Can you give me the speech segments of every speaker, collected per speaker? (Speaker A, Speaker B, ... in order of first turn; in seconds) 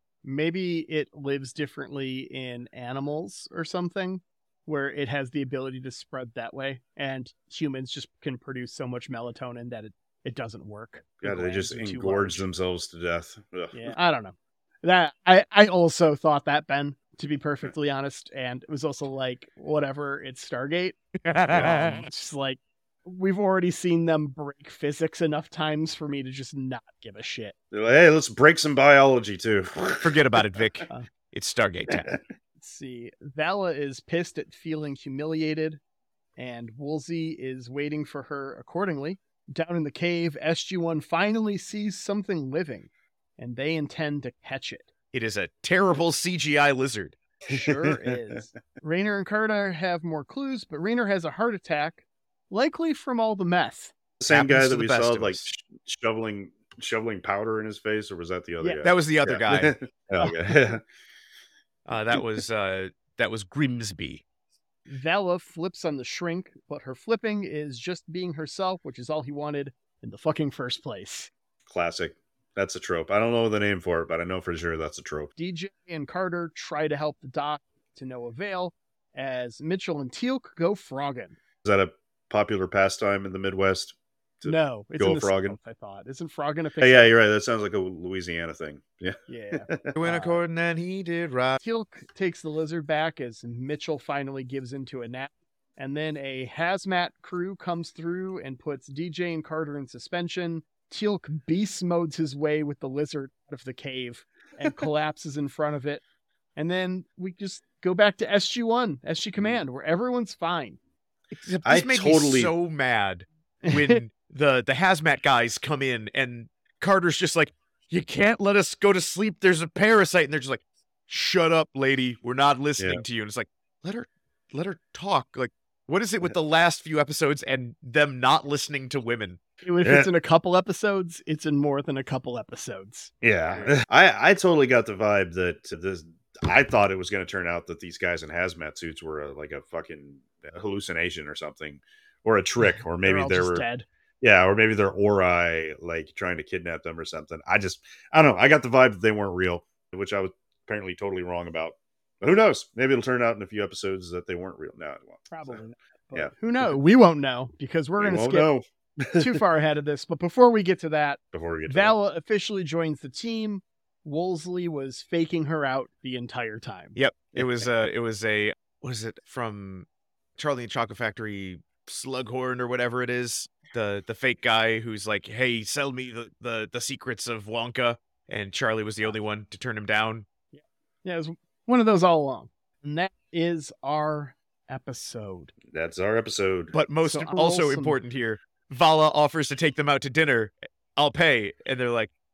Speaker A: 0.2-12.4, 13.7-21.0, 21.5-27.5, 32.6-35.8, 36.4-44.9, 47.5-53.9, 64.9-71.3, 75.4-81.4, 84.4-87.2, 89.3-90.4, 91.6-106.0, 106.6-110.8, 113.6-114.0, 129.6-133.8, 143.0-143.9, 155.3-158.5, 159.2-167.0, 180.5-185.5, 187.1-188.0
Speaker B: 11.2-14.0, 21.5-22.0, 27.7-30.6, 31.9-32.2, 47.5-48.2, 54.2-60.8, 71.7-75.3, 81.6-85.6, 86.8-90.0, 111.7-112.5, 122.8-123.0, 129.8-130.1, 133.2-143.7, 144.2-155.6, 156.1-156.6, 158.0-159.4, 161.3-161.9, 185.7-186.7
Speaker C: 21.2-22.1, 30.0-32.2, 45.1-47.2, 54.3-55.5, 58.8-59.8, 61.9-64.2, 90.0-91.6, 111.3-129.4, 167.0-169.9, 170.4-180.3, 186.7-192.1